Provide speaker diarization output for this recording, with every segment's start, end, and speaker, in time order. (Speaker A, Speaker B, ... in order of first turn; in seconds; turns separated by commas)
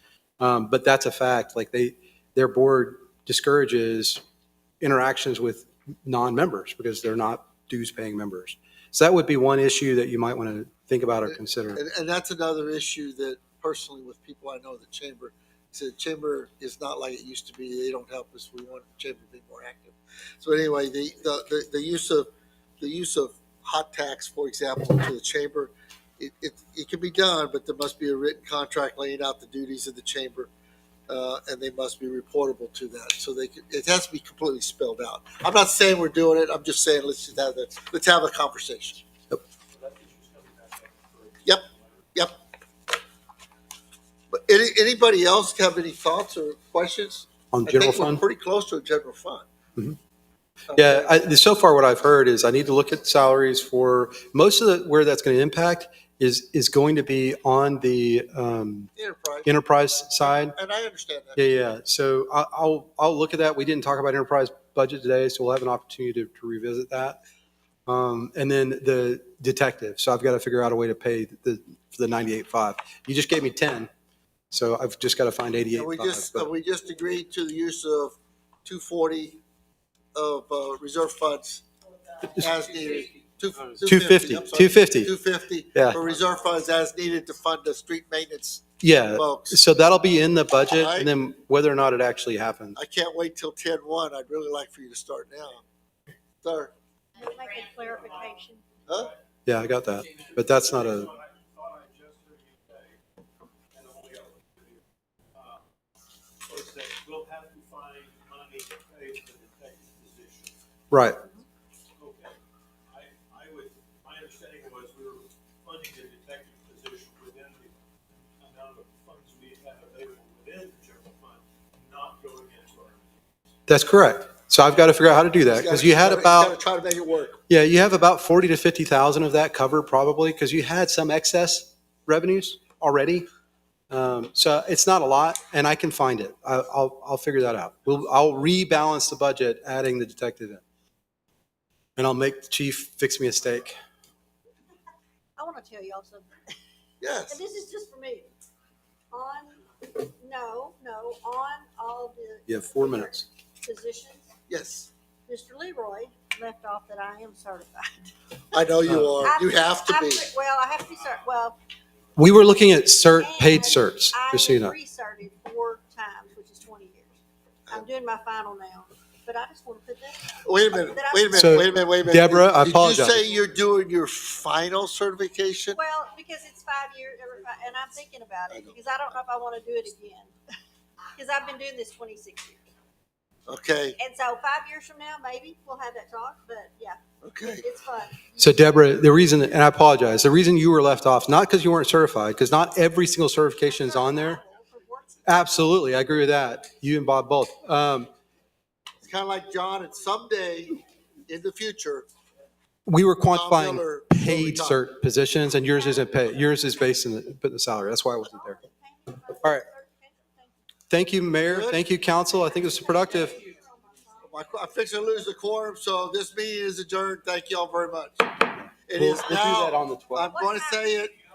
Speaker A: 0.4-4.2, Speaker A: 4.8-11.8, Speaker B: 11.3-30.5, Speaker B: 31.1-39.0, Speaker C: 39.7-41.9, Speaker B: 41.5-42.4, Speaker B: 44.3-49.5, Speaker A: 47.5-48.2, Speaker A: 50.7-58.9, Speaker B: 59.0-59.5, Speaker A: 59.5-60.5, Speaker B: 60.2-61.4, Speaker A: 61.4-67.2, Speaker A: 67.8-73.9, Speaker A: 74.5-76.5, Speaker B: 75.7-79.4, Speaker B: 80.2-81.6, Speaker B: 82.3-89.6, Speaker A: 83.8-85.1, Speaker A: 88.8-92.8, Speaker B: 90.7-91.1, Speaker B: 92.8-95.6, Speaker B: 96.4-96.7, Speaker D: 97.2-98.6, Speaker C: 97.9-98.2, Speaker B: 98.9-99.1, Speaker C: 98.9-99.2, Speaker A: 99.5-101.1, Speaker C: 100.1-103.0, Speaker C: 103.7-104.8, Speaker C: 105.3-105.7, Speaker C: 106.4-110.5, Speaker A: 110.9-111.2, Speaker C: 112.0-112.4, Speaker C: 112.9-117.8, Speaker C: 118.4-123.1, Speaker A: 123.7-126.5, Speaker B: 125.5-127.4, Speaker A: 127.5-133.3, Speaker A: 133.9-140.6, Speaker A: 142.0-143.8, Speaker D: 145.4-146.3, Speaker B: 147.0-147.4, Speaker D: 147.3-148.3, Speaker D: 149.1-154.3, Speaker A: 152.5-153.2, Speaker B: 154.5-154.9, Speaker D: 155.3-158.1, Speaker B: 158.5-160.3, Speaker D: 159.2-161.6, Speaker A: 162.2-164.8, Speaker D: 163.2-171.6, Speaker B: 170.4-175.8, Speaker A: 171.3-173.2, Speaker D: 175.7-180.3, Speaker B: 178.5-178.8, Speaker D: 181.1-182.6, Speaker B: 183.5-184.0, Speaker D: 184.0-188.6, Speaker B: 187.2-187.7, Speaker A: 188.4-194.4, Speaker D: 193.6-195.6, Speaker A: 195.2-198.1, Speaker B: 199.0-202.1, Speaker A: 202.8-208.6, Speaker B: 203.3-204.8, Speaker D: 208.2-210.6, Speaker A: 210.9-213.4, Speaker B: 211.4-211.8, Speaker D: 212.0-214.7, Speaker B: 214.2-218.3, Speaker B: 218.9-221.1, Speaker A: 219.0-220.3, Speaker D: 220.3-221.0